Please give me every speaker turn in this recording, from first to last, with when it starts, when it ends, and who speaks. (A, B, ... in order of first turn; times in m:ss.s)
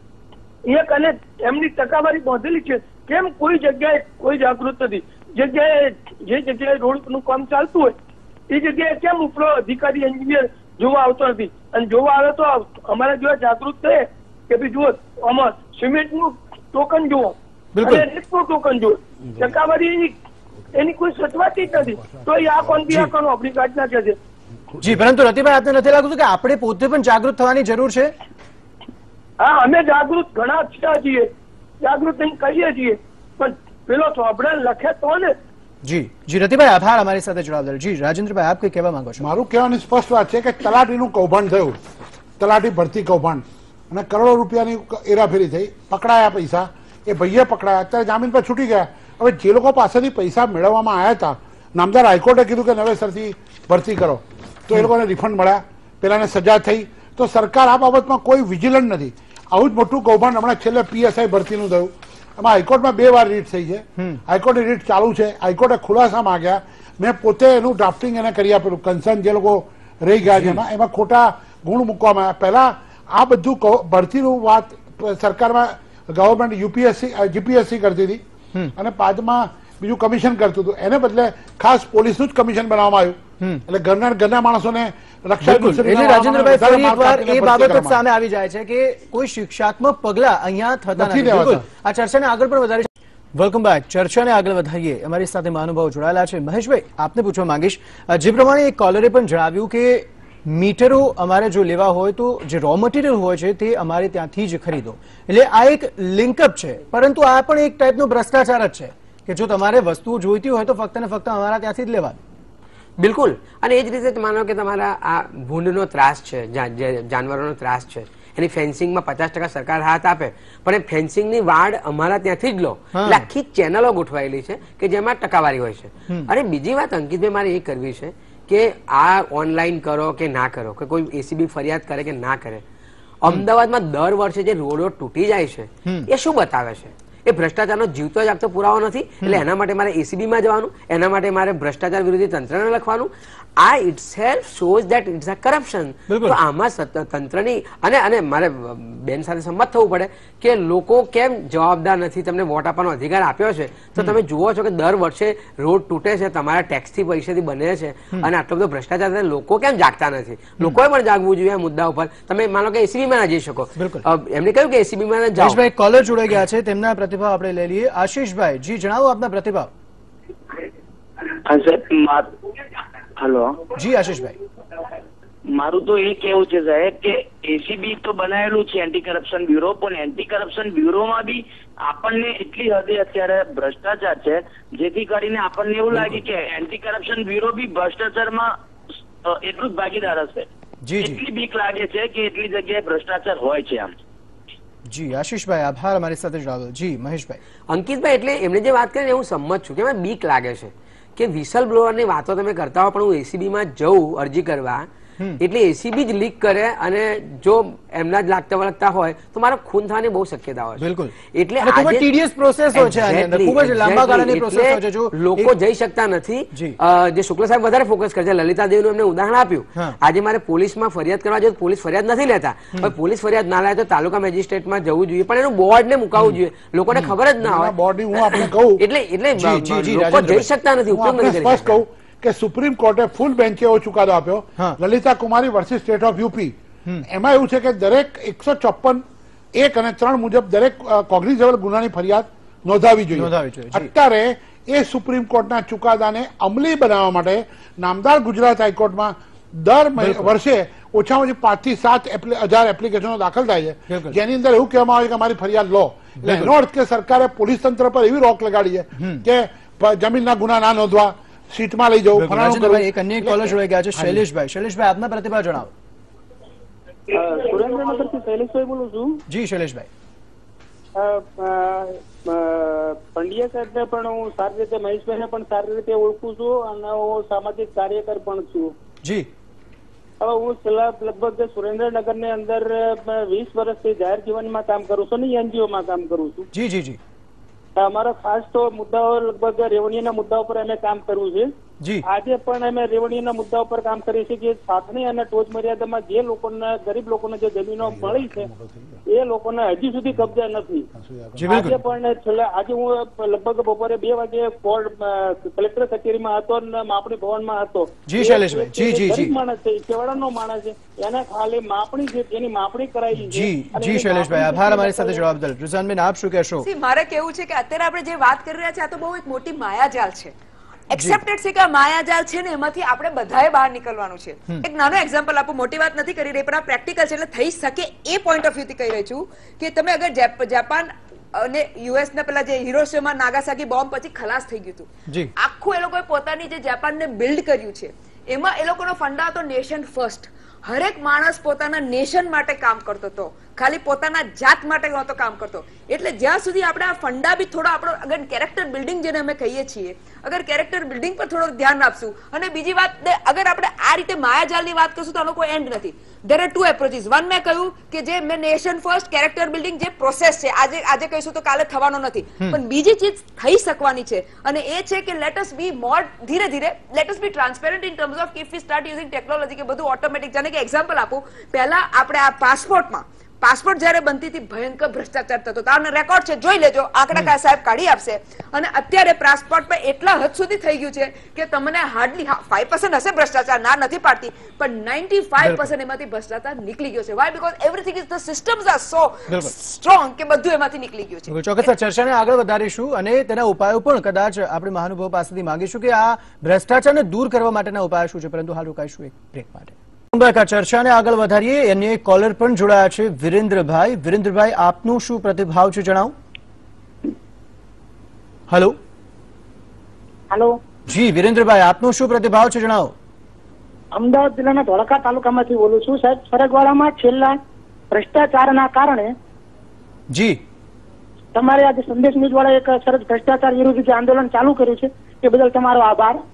0:00.7-0:08.0 A
0:08.5-0:17.4 A
0:17.8-0:18.1 B
0:17.9-0:20.2 A
0:20.8-0:24.2 A
0:21.7-0:22.9 C
0:24.7-0:25.0 C
0:24.8-0:28.1 B
0:29.4-0:31.3 A
0:31.8-0:35.4 A
0:35.8-0:39.3 B
0:39.2-0:41.8 C
0:42.4-1:18.2 C
1:10.3-1:10.6 B
1:18.8-1:28.0 C
1:25.4-1:52.2 B
1:31.0-1:31.6 C
1:53.0-2:12.6 D
2:02.9-2:03.3 B
2:13.2-2:45.6 D
2:26.1-2:26.4 B
2:43.8-2:44.0 B
2:45.4-2:49.7 B
2:51.5-2:52.3 E
2:53.2-2:53.6 E
2:53.8-2:54.4 B
2:55.6-3:08.5 E
3:09.4-3:10.4 E
3:10.8-3:11.2 B
3:11.0-3:13.9 E
3:14.9-3:17.4 B
3:17.7-3:24.9 D
3:25.4-3:32.1 D
3:30.8-3:35.5 B
3:32.7-3:51.8 D
3:47.4-3:48.8 C
3:49.4-3:50.5 B
3:50.9-3:56.6 C
3:57.1-3:59.0 C
3:59.6-4:24.2 C
4:03.1-4:03.9 B
4:10.0-4:10.3 B
4:13.9-4:14.2 B
4:16.2-4:16.5 B
4:19.0-4:19.2 B
4:22.2-4:25.7 B
4:27.1-4:29.2 F
4:29.3-4:29.9 B
4:31.0-4:38.8 F
4:39.0-4:39.3 B
4:40.2-4:46.5 F
4:46.5-4:47.0 B
4:47.8-4:51.5 F
4:51.8-4:52.1 B
4:52.0-4:58.5 F
4:57.8-4:59.0 C
4:59.1-5:00.9 F
5:01.0-5:01.8 C
5:01.4-5:01.8 B
5:01.5-5:15.3 F
5:08.1-5:09.4 B
5:13.1-5:16.7 B
5:16.6-5:20.3 G
5:20.9-6:31.6 G
5:20.9-5:21.2 B
6:25.4-6:25.7 B
6:31.3-6:46.1 B
6:48.5-6:48.8 B
6:50.3-6:50.6 H
6:50.9-6:53.0 B
6:53.9-6:57.4 H
6:57.9-6:59.1 H
7:00.1-7:00.4 B
7:01.3-7:06.2 H